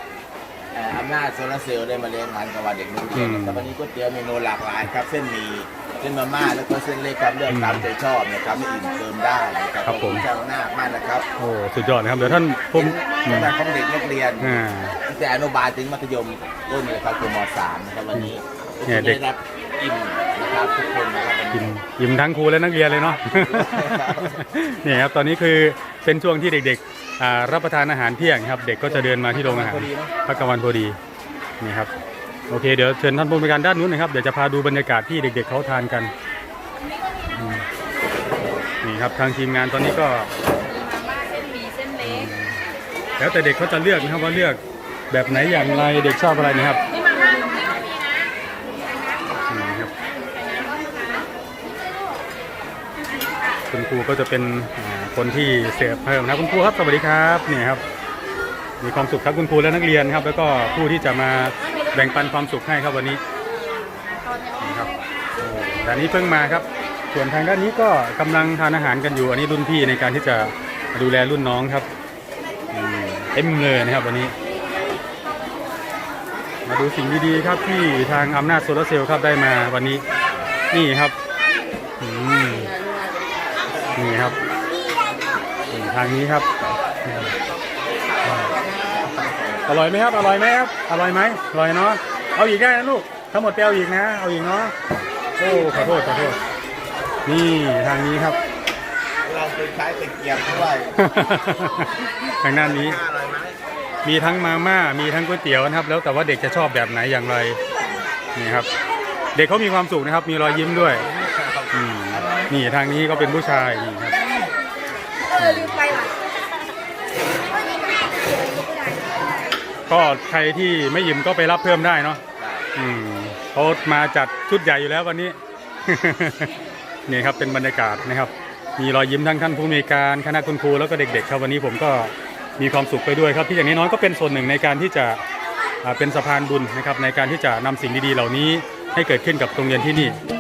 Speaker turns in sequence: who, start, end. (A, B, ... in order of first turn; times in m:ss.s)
0:00.7-0:11.3 A
0:03.1-0:03.7 B
0:07.5-0:07.9 B
0:09.8-0:10.2 B
0:11.4-0:13.5 B
0:12.3-0:21.7 A
0:14.4-0:15.0 B
0:18.8-0:19.2 B
0:21.5-0:31.0 B
0:23.2-0:24.4 A
0:29.4-0:30.1 A
0:31.6-0:31.9 B
0:32.5-0:36.1 B
0:37.3-0:37.7 B
0:38.8-0:40.3 B
0:40.8-0:41.9 C
0:41.9-0:42.6 B
0:43.2-0:47.0 B
0:47.2-0:47.9 C
0:49.5-0:49.9 B
0:50.5-0:51.1 C
0:53.7-0:57.8 B
0:58.8-1:03.2 B
1:04.6-1:11.9 B
1:12.7-1:14.3 B
1:16.7-1:20.0 B
1:20.7-1:21.2 B
1:22.0-1:22.8 B
1:24.0-1:24.4 B
1:25.7-1:27.3 B
1:28.0-1:29.6 A
1:28.2-1:28.6 B
1:29.7-1:34.7 B
1:35.4-1:36.4 B
1:37.2-1:38.4 B
1:39.2-1:41.0 A
1:41.0-1:43.0 B
1:42.5-1:43.6 A
1:44.0-1:47.6 B
1:48.3-1:48.7 B
1:49.3-1:51.1 B
1:51.0-1:52.5 A
1:51.7-1:54.2 B
1:55.3-1:56.0 B
1:59.9-2:02.2 B
2:02.4-2:02.7 A
2:02.7-2:15.2 B
2:15.8-2:20.2 B